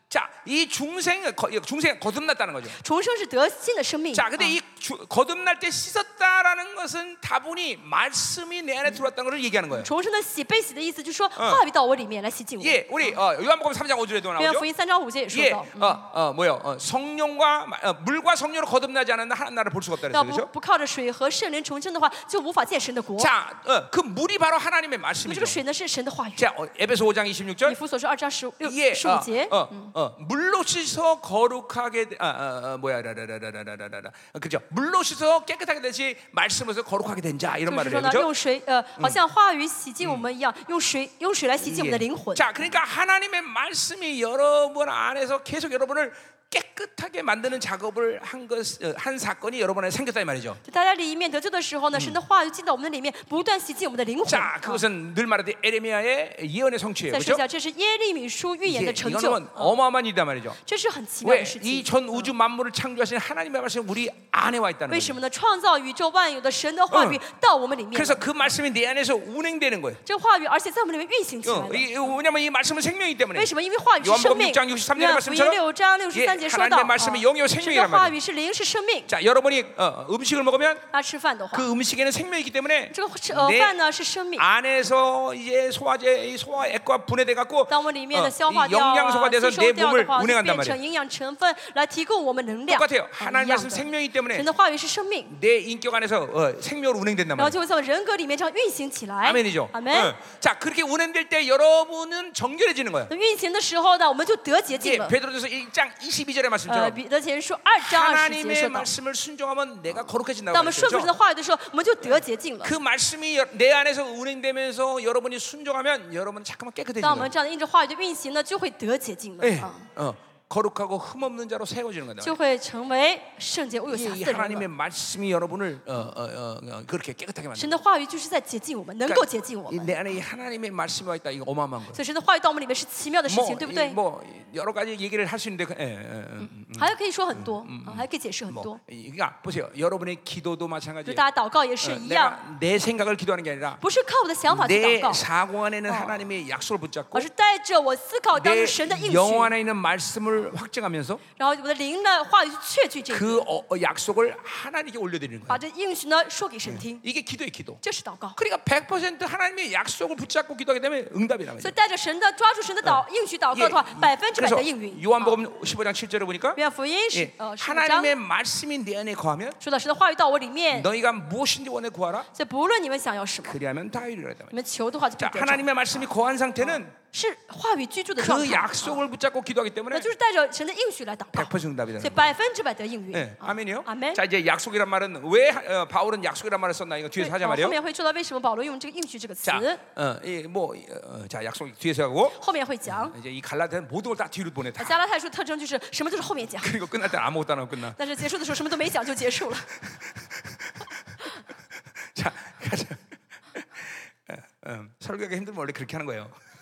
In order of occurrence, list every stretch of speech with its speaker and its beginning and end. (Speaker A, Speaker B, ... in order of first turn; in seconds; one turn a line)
Speaker A: 0.1-2.8
Speaker B: 2.7-4.5
Speaker A: 4.1-9.9
Speaker B: 9.7-13.1
Speaker A: 11.4-11.6
Speaker A: 12.6-14.7
Speaker B: 14.4-16.0
Speaker A: 15.3-20.5
Speaker B: 20.1-23.3
Speaker A: 23.2-25.6
Speaker B: 25.2-26.4
Speaker A: 26.4-27.8
Speaker B: 27.6-29.9
Speaker A: 28.6-38.3
Speaker B: 37.6-42.5
Speaker A: 41.6-50.6
Speaker B: 50.6-54.8
Speaker A: 54.2-57.4
Speaker B: 57.1-59.8
Speaker A: 58.6-60.6
Speaker B: 60.6-62.3
Speaker A: 61.2-65.2
Speaker B: 64.9-68.3
Speaker A: 66.9-67.2
Speaker A: 67.9-70.0
Speaker B: 70.0-72.1
Speaker A: 71.4-75.6
Speaker B: 73.3-79.1
Speaker A: 76.1-78.1
Speaker A: 79.1-80.8
Speaker B: 80.9-81.7
Speaker A: 81.5-83.8
Speaker B: 82.9-84.4
Speaker A: 84.3-90.8
Speaker B: 87.7-95.3
Speaker A: 92.7-94.5
Speaker A: 95.3-97.5
Speaker B: 97.4-100.1
Speaker A: 99.2-103.1
Speaker B: 103.1-105.2
Speaker A: 104.8-107.0
Speaker B: 106.7-108.9
Speaker A: 107.8-111.1
Speaker B: 110.5-112.8
Speaker A: 112.0-117.3
Speaker B: 117.0-119.8
Speaker A: 119.4-122.4
Speaker B: 122.2-124.7
Speaker A: 123.9-127.8
Speaker B: 127.5-129.9
Speaker A: 129.1-132.0
Speaker B: 131.9-134.0
Speaker A: 133.3-141.2
Speaker B: 136.4-138.8
Speaker B: 141.1-142.4
Speaker A: 141.8-143.8
Speaker B: 143.8-145.2
Speaker A: 144.5-147.3
Speaker B: 145.8-146.3
Speaker B: 147.1-149.5
Speaker A: 148.3-151.2
Speaker B: 151.3-153.5
Speaker A: 153.1-155.6
Speaker B: 155.5-157.0
Speaker A: 156.7-157.8
Speaker B: 157.8-158.4
Speaker A: 158.3-161.7
Speaker B: 161.6-165.4
Speaker A: 162.8-166.6
Speaker B: 166.5-168.1
Speaker A: 167.1-169.6
Speaker B: 169.6-170.9
Speaker A: 170.7-172.3
Speaker B: 172.3-173.6
Speaker A: 173.4-174.6
Speaker B: 174.5-175.7
Speaker A: 175.2-176.9
Speaker B: 176.6-179.0
Speaker A: 178.2-180.1
Speaker B: 179.9-184.2
Speaker A: 181.3-182.3
Speaker A: 183.1-187.8
Speaker B: 187.2-189.8
Speaker A: 189.4-195.0
Speaker B: 192.3-193.2
Speaker B: 194.8-196.7
Speaker A: 196.6-198.3
Speaker B: 198.0-199.7
Speaker A: 199.8-201.2
Speaker A: 202.1-206.4